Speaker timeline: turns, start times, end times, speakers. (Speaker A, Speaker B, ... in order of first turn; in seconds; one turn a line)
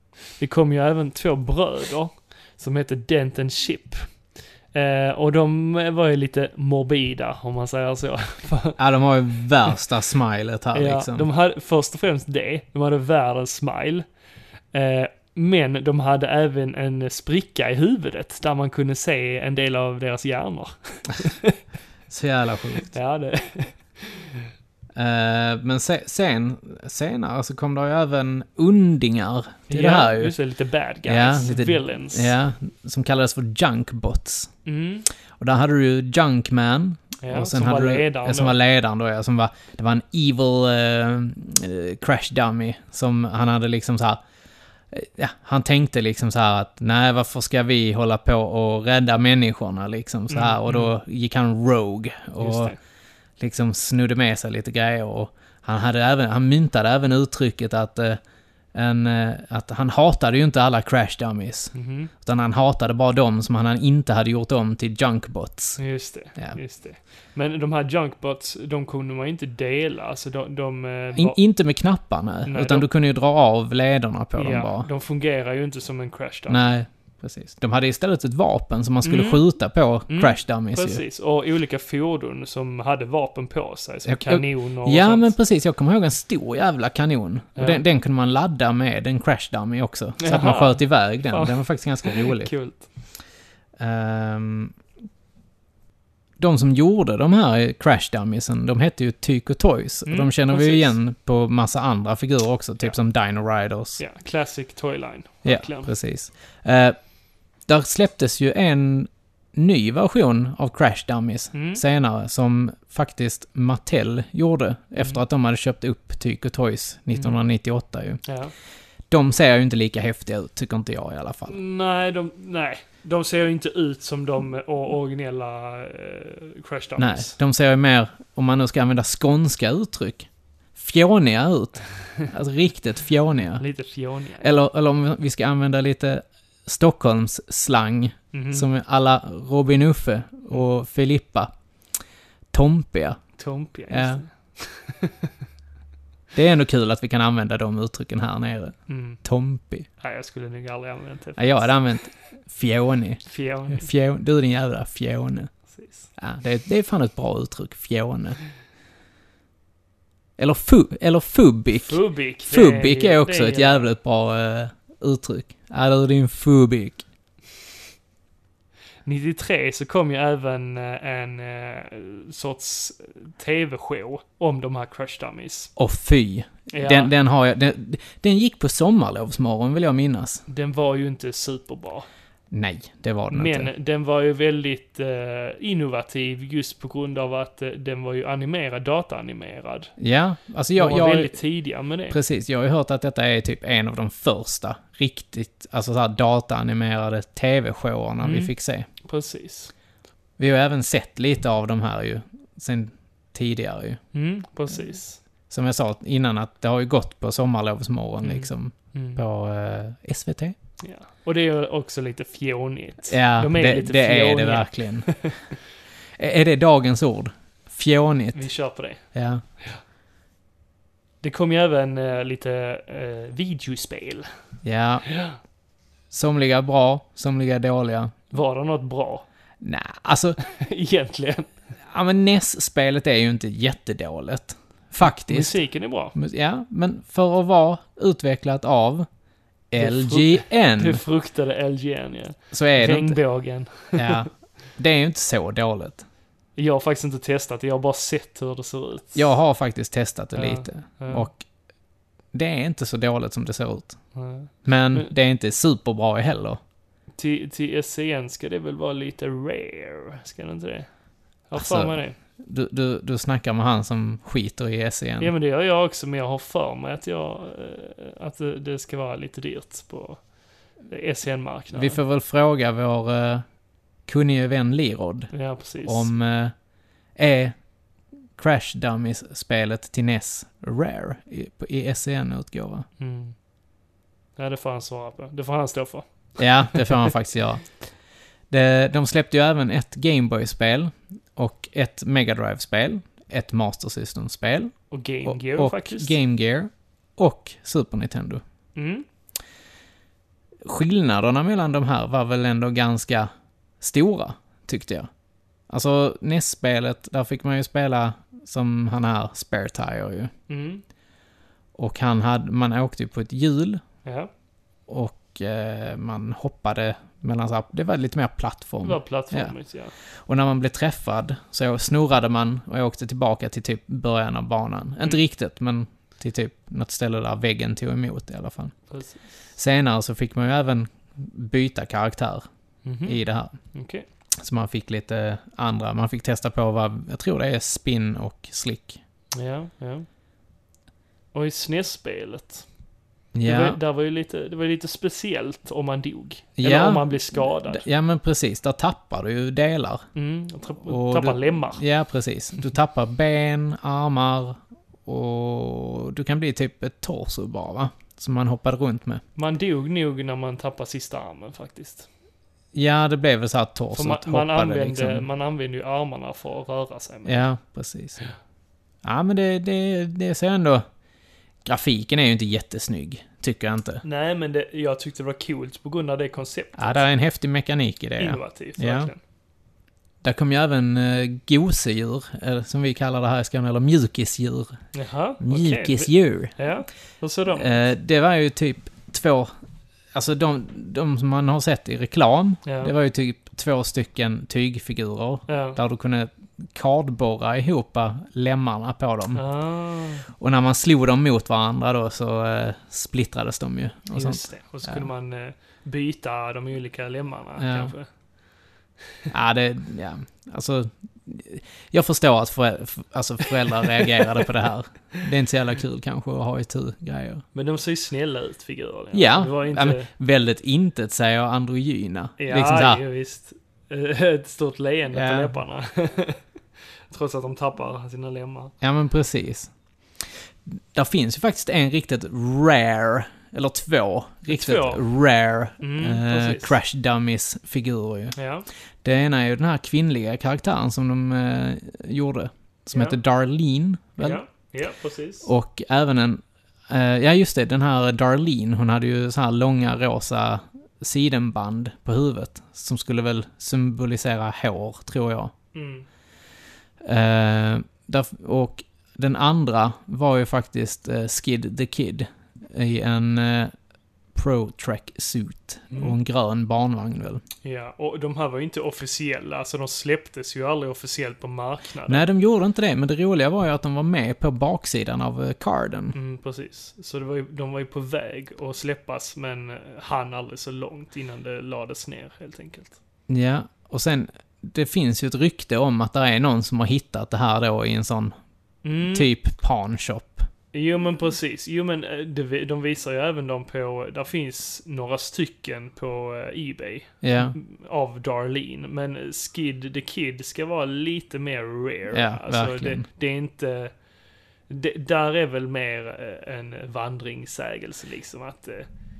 Speaker A: 0.4-4.0
Speaker A: 4.7-8.8
Speaker B: 8.8-11.3
Speaker A: 10.7-14.1
Speaker A: 14.7-21.5
Speaker B: 22.1-22.9
Speaker A: 22.9-24.4
Speaker B: 24.9-30.4
Speaker A: 29.7-32.3
Speaker B: 31.1-34.5
Speaker A: 34.7-35.1
Speaker B: 35.4-44.2
Speaker A: 37.2-38.6
Speaker B: 44.9-52.8
Speaker A: 50.3-50.9
Speaker A: 52.4-52.8
Speaker B: 53.4-58.2
Speaker B: 58.7-65.8
Speaker A: 61.7-62.1
Speaker A: 65.8-71.4
Speaker B: 71.2-74.9
Speaker A: 72.5-72.9
Speaker A: 74.4-76.7
Speaker B: 76.5-81.0
Speaker A: 79.0-79.5
Speaker A: 80.1-85.3
Speaker B: 84.1-92.5
Speaker A: 87.6-87.8
Speaker A: 90.2-92.9
Speaker B: 93.8-94.8
Speaker B: 96.4-104.0
Speaker A: 100.1-100.9
Speaker A: 104.0-105.9
Speaker B: 105.5-107.0
Speaker B: 107.7-118.2
Speaker A: 111.5-111.8
Speaker A: 118.2-118.5
Speaker B: 119.1-121.5
Speaker A: 121.5-127.4
Speaker B: 127.0-133.6
Speaker A: 133.6-134.5
Speaker B: 134.4-141.5
Speaker A: 138.3-138.7
Speaker B: 142.5-143.2
Speaker A: 143.4-145.1
Speaker B: 143.9-144.2
Speaker B: 146.3-149.9
Speaker A: 148.9-149.2
Speaker A: 150.0-151.9
Speaker B: 151.4-155.5
Speaker A: 153.3-153.9
Speaker A: 155.7-156.1
Speaker B: 156.2-158.4
Speaker B: 160.4-167.0
Speaker A: 161.8-163.9
Speaker A: 169.1-175.7
Speaker B: 175.8-180.4
Speaker A: 176.7-177.1
Speaker A: 180.5-182.1
Speaker B: 182.5-183.7
Speaker A: 183.3-189.9
Speaker B: 190.0-191.4
Speaker A: 190.8-192.2
Speaker B: 192.1-198.9
Speaker A: 198.2-199.7
Speaker B: 200.4-204.0
Speaker A: 204.1-205.2
Speaker B: 205.5-210.6
Speaker A: 208.2-209.2
Speaker A: 210.8-215.4
Speaker B: 213.1-215.3
Speaker B: 216.2-218.5
Speaker A: 218.3-219.1
Speaker B: 219.1-219.4
Speaker A: 221.2-224.3
Speaker B: 224.6-225.1
Speaker A: 225.1-225.4
Speaker B: 226.1-228.2
Speaker A: 228.3-229.2
Speaker B: 229.6-230.4
Speaker A: 230.4-231.5
Speaker B: 231.9-235.6
Speaker A: 235.0-236.2
Speaker B: 236.1-239.1
Speaker B: 239.7-241.0
Speaker A: 239.8-244.3
Speaker B: 242.5-243.2
Speaker B: 243.9-246.0
Speaker A: 246.6-249.3
Speaker B: 249.2-251.4
Speaker A: 250.3-251.3
Speaker B: 252.3-254.0
Speaker A: 254.2-255.1
Speaker B: 254.6-256.6
Speaker A: 257.2-262.2
Speaker B: 261.6-265.3
Speaker A: 265.2-270.3
Speaker A: 270.8-272.0
Speaker B: 271.7-273.4
Speaker B: 274.1-276.6
Speaker A: 275.3-276.1
Speaker B: 277.2-277.6
Speaker B: 278.4-282.9
Speaker A: 283.0-283.4
Speaker A: 284.4-286.1
Speaker B: 286.4-287.7
Speaker A: 286.7-287.0
Speaker B: 288.5-298.4
Speaker A: 294.9-296.2
Speaker A: 298.8-299.1
Speaker B: 300.6-305.1
Speaker B: 305.7-310.3
Speaker A: 310.5-310.8
Speaker B: 311.8-313.8
Speaker A: 314.1-314.3
Speaker B: 314.9-319.6
Speaker A: 318.8-319.9
Speaker B: 320.3-328.8
Speaker A: 328.9-329.3
Speaker B: 329.6-332.5
Speaker A: 332.8-333.2
Speaker B: 333.1-333.6
Speaker A: 333.7-334.1
Speaker B: 334.4-339.0
Speaker A: 339.3-340.1
Speaker A: 341.3-342.7
Speaker B: 343.4-343.8
Speaker A: 343.4-347.9
Speaker B: 346.6-350.0
Speaker A: 350.1-351.8
Speaker B: 350.9-359.2
Speaker A: 359.4-362.1
Speaker B: 362.7-365.3
Speaker A: 363.9-367.4
Speaker B: 367.3-368.2
Speaker B: 369.0-370.9
Speaker B: 371.6-374.0
Speaker A: 374.0-377.1
Speaker B: 376.8-379.1
Speaker A: 378.2-379.2
Speaker B: 380.2-384.8
Speaker A: 384.9-387.9
Speaker B: 385.4-386.6
Speaker B: 387.5-389.5
Speaker B: 390.1-399.4
Speaker A: 392.6-392.9
Speaker A: 395.5-395.8
Speaker A: 399.4-400.3
Speaker B: 400.3-405.1
Speaker A: 404.1-408.1
Speaker B: 407.6-407.9
Speaker B: 409.3-417.4
Speaker A: 417.5-420.1
Speaker B: 419.1-423.0
Speaker A: 422.4-426.4
Speaker B: 425.1-425.6
Speaker A: 427.1-428.7
Speaker B: 428.8-429.7
Speaker B: 430.7-438.4
Speaker A: 434.5-435.0
Speaker A: 435.8-436.8
Speaker A: 438.4-438.7
Speaker B: 439.0-444.4
Speaker A: 442.9-443.2
Speaker A: 444.2-445.5
Speaker B: 445.4-455.5
Speaker A: 455.7-456.1
Speaker B: 457.0-463.7
Speaker B: 464.4-467.4
Speaker A: 465.9-466.2
Speaker A: 467.6-472.2
Speaker B: 472.1-476.2
Speaker A: 476.1-483.0
Speaker B: 483.3-488.4
Speaker A: 488.8-489.3
Speaker B: 489.1-490.5
Speaker A: 490.7-503.9
Speaker B: 497.2-497.6
Speaker B: 502.1-503.1
Speaker A: 504.7-508.9